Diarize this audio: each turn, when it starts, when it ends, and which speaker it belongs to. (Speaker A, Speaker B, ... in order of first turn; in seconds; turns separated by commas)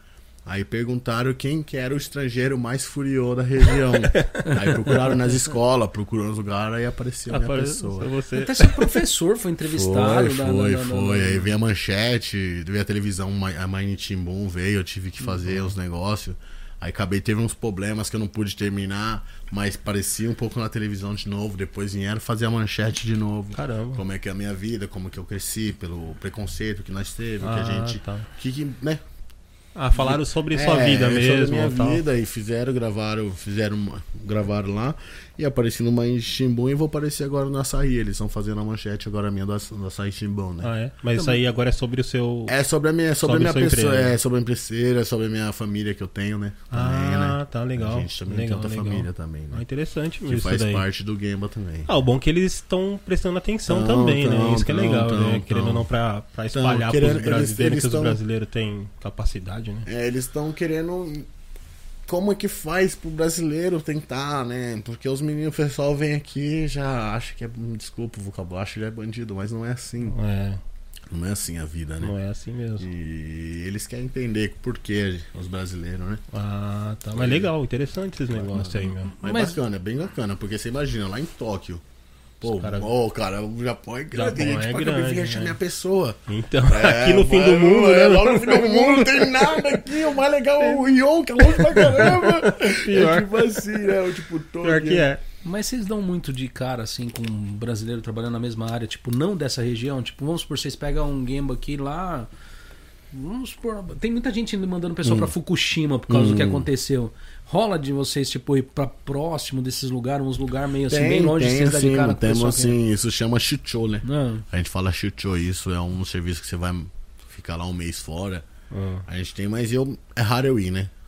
Speaker A: 0.5-8.1, Speaker B: 4.1-5.0, Speaker B: 7.3-8.9, Speaker C: 8.3-11.5, Speaker A: 9.6-29.0, Speaker B: 23.5-24.0, Speaker B: 27.4-28.3, Speaker B: 29.8-32.0, Speaker A: 29.9-40.7, Speaker B: 40.6-42.6, Speaker A: 42.5-49.6, Speaker B: 43.2-44.1, Speaker B: 46.7-50.8, Speaker A: 50.3-51.9, Speaker B: 51.9-59.9, Speaker A: 53.6-55.9, Speaker A: 56.5-58.2, Speaker A: 59.9-61.3, Speaker A: 62.1-70.2, Speaker B: 70.0-70.6, Speaker A: 71.1-72.1, Speaker B: 72.0-72.9, Speaker A: 72.8-76.2, Speaker B: 76.3-79.1, Speaker A: 77.1-77.5, Speaker A: 78.3-81.8, Speaker C: 79.1-79.6, Speaker A: 82.4-95.1, Speaker B: 82.4-82.9, Speaker B: 84.1-85.6, Speaker B: 86.3-89.9, Speaker B: 91.4-93.8, Speaker B: 94.6-95.2, Speaker C: 95.4-102.3, Speaker C: 103.1-112.8, Speaker A: 105.0-105.3, Speaker A: 106.1-106.7, Speaker A: 110.9-118.4, Speaker C: 114.0-114.4, Speaker B: 118.7-119.0, Speaker A: 119.1-120.9